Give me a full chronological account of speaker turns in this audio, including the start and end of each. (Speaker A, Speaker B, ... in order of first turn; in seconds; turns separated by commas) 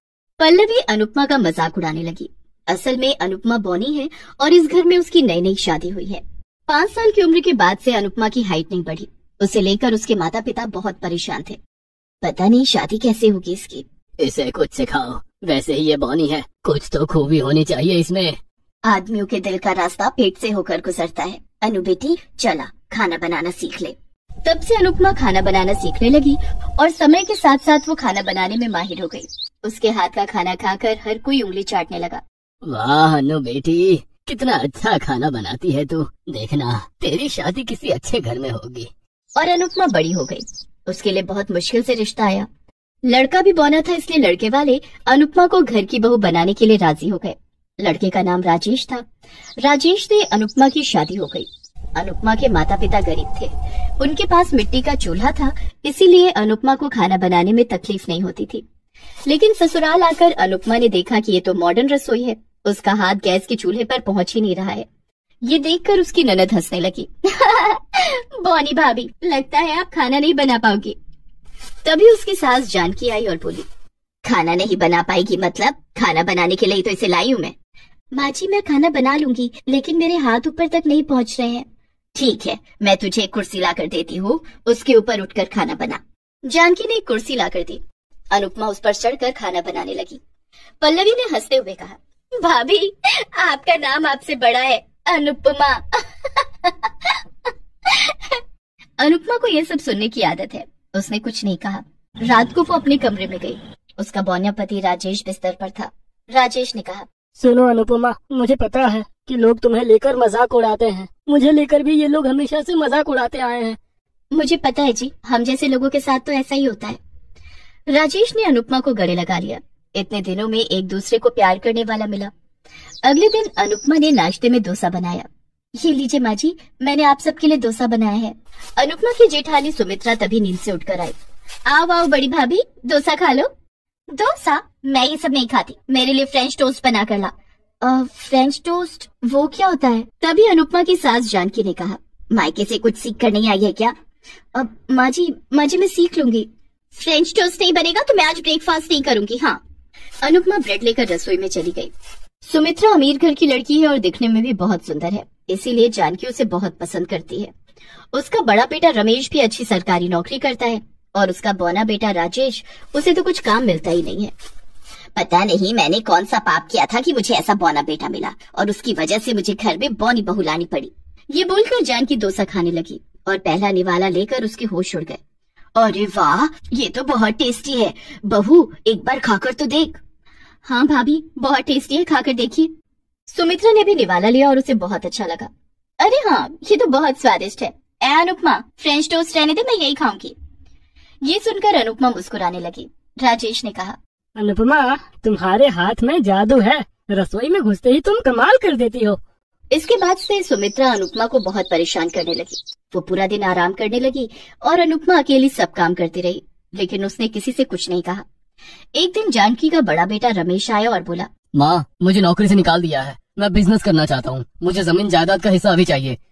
Speaker A: 0.4-11.6, Speaker A: 12.2-13.8, Speaker B: 14.2-18.4, Speaker A: 18.9-32.2, Speaker B: 32.6-38.9, Speaker A: 39.4-42.5, Speaker A: 43.0-49.0, Speaker A: 49.6-58.6, Speaker A: 59.3-64.9, Speaker A: 65.4-71.0, Speaker A: 71.8-73.7, Speaker A: 74.2-77.5, Speaker A: 78.1-87.8, Speaker A: 88.3-90.2, Speaker A: 90.8-97.2, Speaker A: 97.9-98.4, Speaker A: 99.0-107.1, Speaker C: 107.4-113.8, Speaker A: 114.3-117.0, Speaker A: 117.9-122.3, Speaker A: 123.0-125.3, Speaker A: 125.8-133.5, Speaker A: 134.1-143.9, Speaker A: 144.5-149.6, Speaker A: 150.2-151.9, Speaker A: 152.4-157.5, Speaker A: 158.1-164.3, Speaker A: 165.2-175.2, Speaker A: 175.8-180.0, Speaker A: 180.6-182.7, Speaker A: 183.3-190.3, Speaker A: 191.3-194.0, Speaker C: 194.4-199.2, Speaker A: 199.7-208.2, Speaker A: 208.9-211.3, Speaker B: 211.6-216.2